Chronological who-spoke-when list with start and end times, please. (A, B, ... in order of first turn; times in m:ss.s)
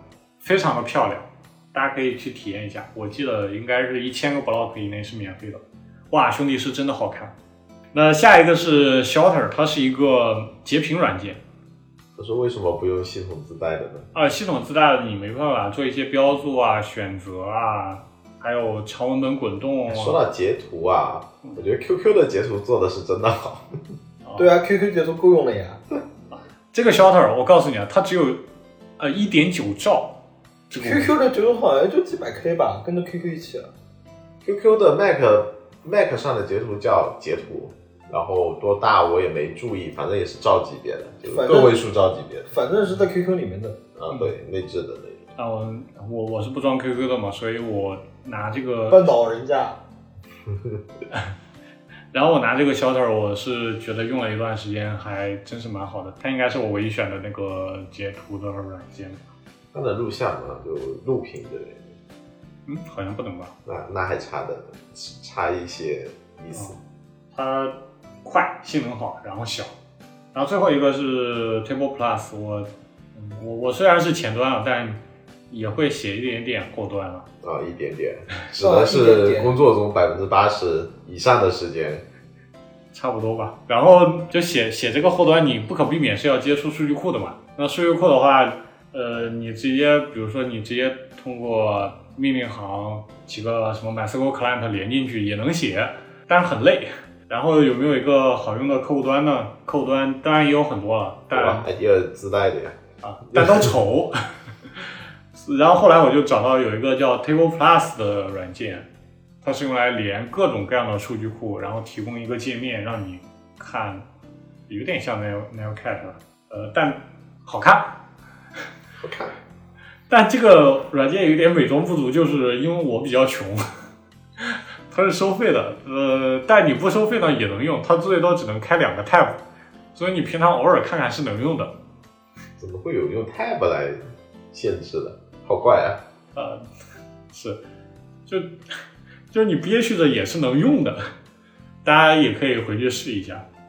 0:00.4-0:07.3 A
0:07.9-0:11.4 A
0:12.2-0:14.1 B
0:14.1-0:20.2 A
0:19.9-0:23.6 B
0:24.2-0:24.5 A
0:24.4-0:25.8 C
0:26.3-0:28.4 A
0:29.0-0:30.2 A
0:30.7-0:33.7 C
0:30.8-0:31.1 A
0:34.4-0:42.5 B
0:41.2-0:41.7 C
0:42.5-0:43.8 C
0:44.0-0:45.2 B
0:45.4-0:49.1 A
0:48.9-0:49.8 C
0:52.1-0:59.2 A
0:59.7-1:01.8 B
1:02.6-1:03.5 A
1:03.6-1:06.7 B
1:06.5-1:06.8 A
1:07.3-1:09.7 A
1:10.3-1:17.2 A
1:17.4-1:22.0 B
1:18.6-1:19.5 C
1:22.9-1:41.7 A
1:41.3-1:42.8 B
1:43.0-1:48.9 A
1:43.3-1:43.7 B
1:49.4-1:54.0 A
1:54.7-1:58.0 A
1:59.0-1:59.4 B
2:00.1-2:03.6 A
2:04.4-2:09.4 A
2:09.9-2:11.7 A
2:12.6-2:14.0 B
2:14.5-2:16.0 B
2:16.3-2:16.6 A
2:17.3-2:17.6 A
2:18.3-2:18.6 A
2:19.3-2:21.1 A
2:21.8-2:23.4 A